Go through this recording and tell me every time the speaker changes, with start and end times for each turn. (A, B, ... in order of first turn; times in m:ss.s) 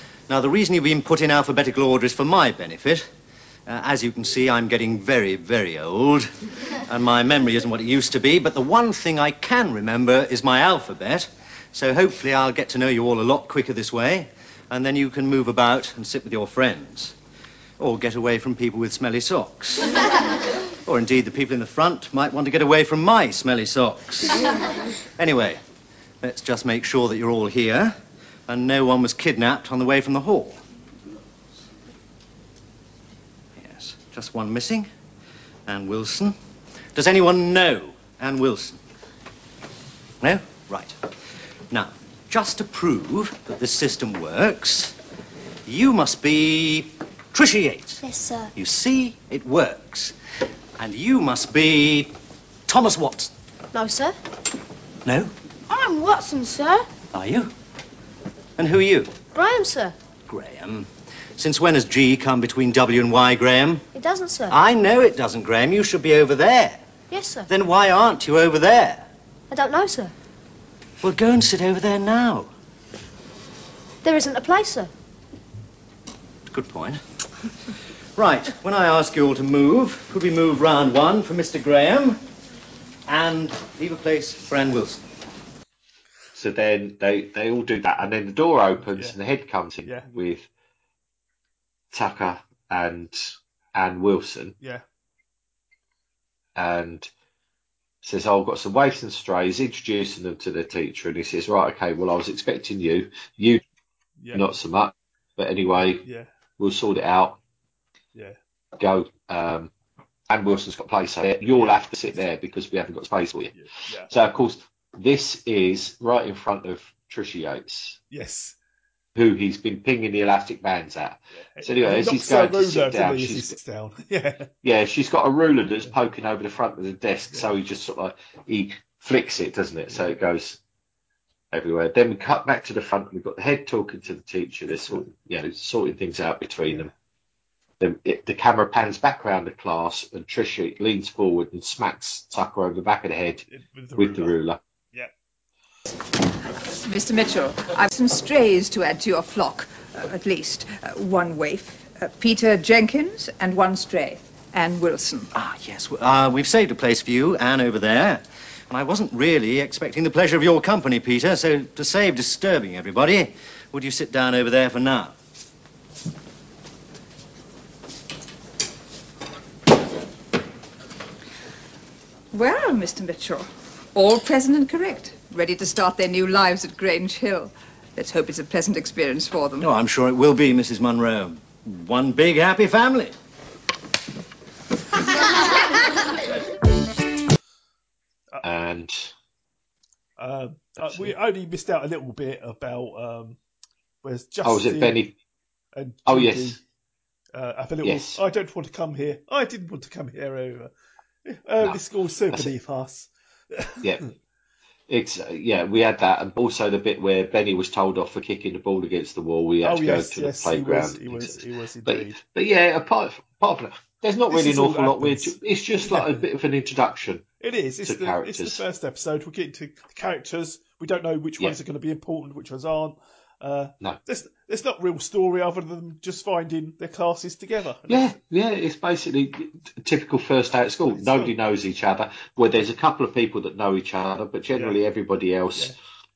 0:00.3-0:03.1 A
0:03.7-0:06.3 A
0:06.9-0:17.2 A
0:17.8-0:20.0 A
0:20.8-0:24.4 A
0:25.2-0:25.6 A
0:26.2-0:28.0 A
0:28.5-0:30.6 A
0:33.6-0:34.9 A
0:35.7-0:36.4 A
0:37.0-0:38.8 A
0:40.2-0:41.0 A
0:41.7-0:45.0 A
0:45.7-0:48.0 A
0:48.0-0:48.5 B
0:48.6-0:50.1 A
0:50.8-0:52.1 A
0:52.7-0:53.3 A
0:53.7-0:54.2 B
0:55.1-0:55.3 A
0:55.7-0:56.9 B
0:57.1-0:57.5 A
0:58.6-0:59.1 A
0:59.3-1:00.0 B
1:00.3-1:03.8 A
1:03.9-1:04.6 B
1:04.5-1:06.8 A
1:07.1-1:07.5 B
1:07.5-1:09.1 A
1:09.5-1:10.1 B
1:11.0-1:12.5 A
1:14.0-1:14.9 B
1:16.5-1:17.0 A
1:18.2-1:22.2 A
1:23.1-1:25.0 A
1:26.4-1:30.5 C
1:28.9-1:29.2 D
1:29.8-1:30.1 D
1:31.9-1:34.6 C
1:36.6-1:37.1 C
1:38.0-1:43.6 C
1:44.2-1:44.5 D
1:44.3-1:46.0 C
1:46.0-1:46.3 D
1:46.6-1:47.4 C
1:48.8-1:49.7 C
1:50.3-1:53.6 C
1:51.4-1:52.2 D
1:53.5-1:54.1 D
1:54.1-1:58.0 C
1:58.1-1:58.6 D
1:59.2-2:03.6 C
2:01.4-2:04.5 D
2:04.6-2:10.6 C
2:09.9-2:10.2 D
2:11.5-2:16.9 C
2:14.7-2:15.0 D
2:17.8-2:23.4 C
2:23.5-2:24.4 D
2:24.0-2:24.6 C
2:26.5-2:35.3 E
2:35.3-2:45.2 A
2:52.3-2:59.7 E
2:59.6-3:03.2 A
3:08.4-3:09.1 C
3:10.2-3:13.4 D
3:10.8-3:11.1 C
3:14.0-3:15.0 D
3:14.4-3:15.1 C
3:15.8-3:16.6 D
3:16.1-3:16.6 C
3:17.3-3:20.7 D
3:17.8-3:18.2 C
3:21.2-3:24.1 D
3:24.9-3:37.3 C
3:29.6-3:32.2 D
3:34.3-3:36.2 D
3:37.4-3:48.2 D
3:37.8-3:38.6 C
3:47.9-3:55.8 C
3:50.9-3:51.3 D
3:54.5-3:54.8 D